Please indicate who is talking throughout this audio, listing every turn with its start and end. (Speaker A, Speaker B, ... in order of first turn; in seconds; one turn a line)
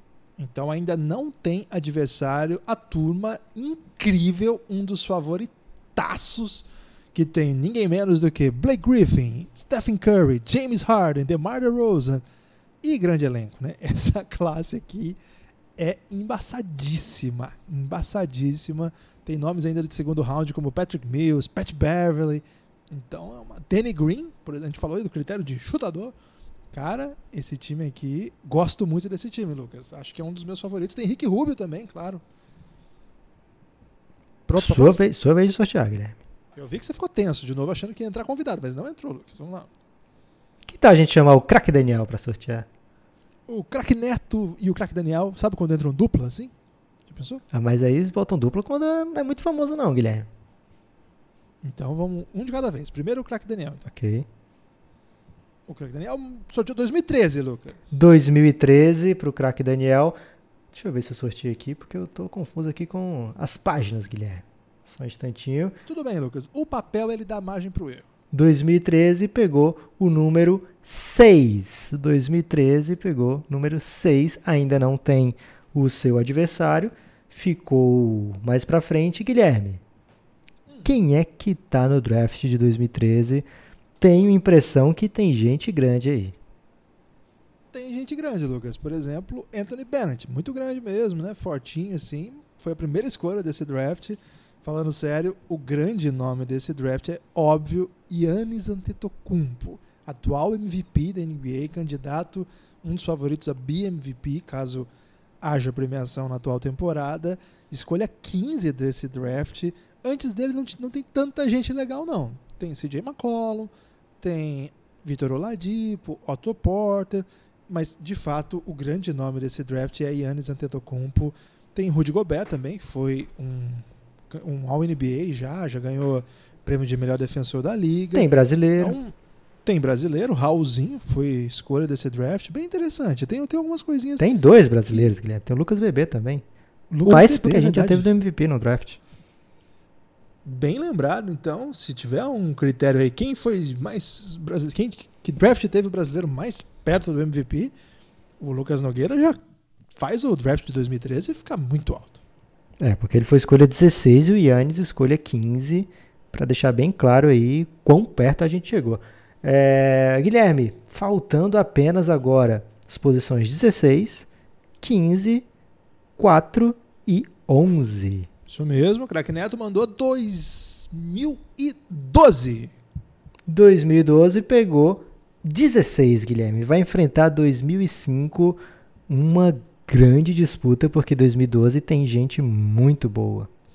Speaker A: 0.4-12.2
Speaker A: 12.8-15.2
Speaker A: 15.8-26.1
Speaker A: 26.7-32.2
Speaker A: 34.5-35.0
Speaker B: 34.5-36.2
Speaker A: 36.5-39.7
Speaker B: 40.7-42.6
Speaker A: 43.5-46.5
Speaker A: 47.1-47.4
Speaker B: 47.5-50.3
Speaker A: 51.6-53.8
Speaker B: 53.9-54.2
Speaker A: 55.7-57.9
Speaker B: 57.9-60.1
Speaker B: 60.7-65.8
Speaker A: 65.8-68.0
Speaker B: 68.3-79.8
Speaker B: 80.8-83.5
Speaker B: 84.0-86.3
Speaker A: 87.7-104.9
Speaker A: 105.4-113.7
Speaker A: 114.2-129.1
Speaker B: 128.1-128.9
Speaker A: 129.6-134.2
Speaker B: 134.2-136.4
Speaker A: 136.9-138.1
Speaker B: 137.1-139.0
Speaker A: 140.4-147.7
Speaker A: 148.4-149.4
Speaker A: 149.9-152.2
Speaker B: 152.8-164.2
Speaker B: 164.8-165.4
Speaker B: 166.2-168.3
Speaker A: 168.5-172.7
Speaker B: 173.5-183.5